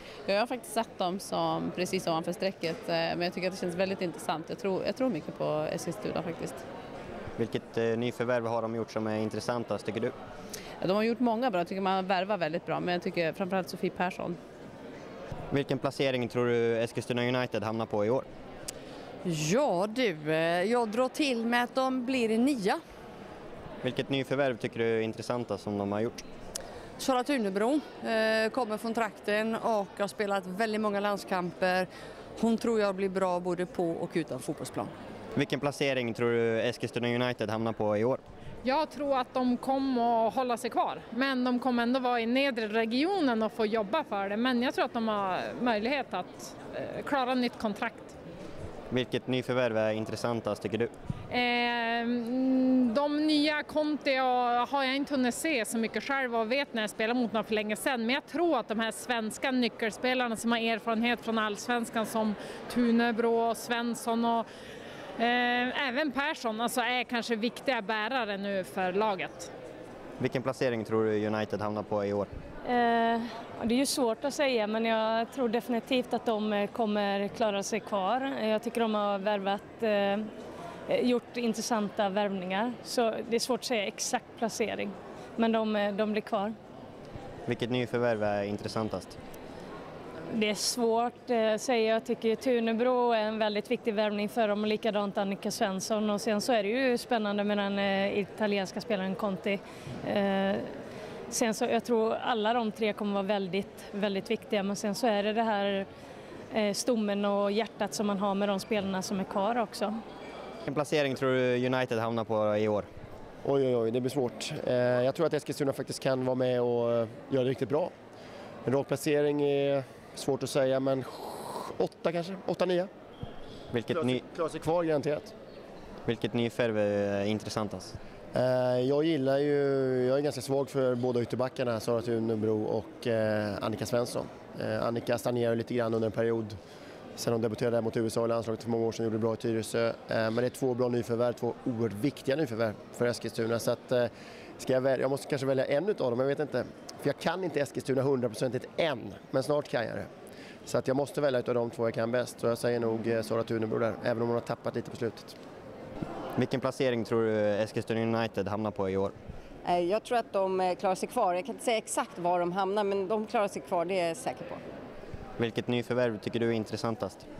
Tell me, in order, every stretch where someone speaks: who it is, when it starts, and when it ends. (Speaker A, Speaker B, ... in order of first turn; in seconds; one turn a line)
Speaker A: 0.3-6.6
Speaker B: 7.4-10.1
Speaker A: 10.8-14.4
Speaker B: 15.5-18.3
Speaker C: 19.2-22.8
Speaker B: 23.8-26.2
Speaker C: 27.0-34.9
Speaker B: 35.3-38.2
Speaker D: 38.6-48.1
Speaker B: 48.9-50.9
Speaker D: 51.3-64.5
Speaker D: 65.2-69.5
Speaker B: 70.2-72.3
Speaker E: 72.6-80.2
Speaker E: 80.9-86.5
Speaker B: 87.5-89.2
Speaker E: 90.3-100.7
Speaker E: 101.3-105.8
Speaker E: 106.5-109.9
Speaker B: 110.7-112.9
Speaker F: 113.4-117.9
Speaker F: 118.7-122.9
Speaker B: 123.7-124.2
Speaker F: 123.9-125.3
Speaker B: 126.0-128.0
Speaker F: 128.3-136.6
Speaker F: 137.2-150.1
Speaker F: 150.7-155.3
Speaker B: 156.4-159.1
Speaker G: 159.6-164.6
Speaker B: 165.4-167.2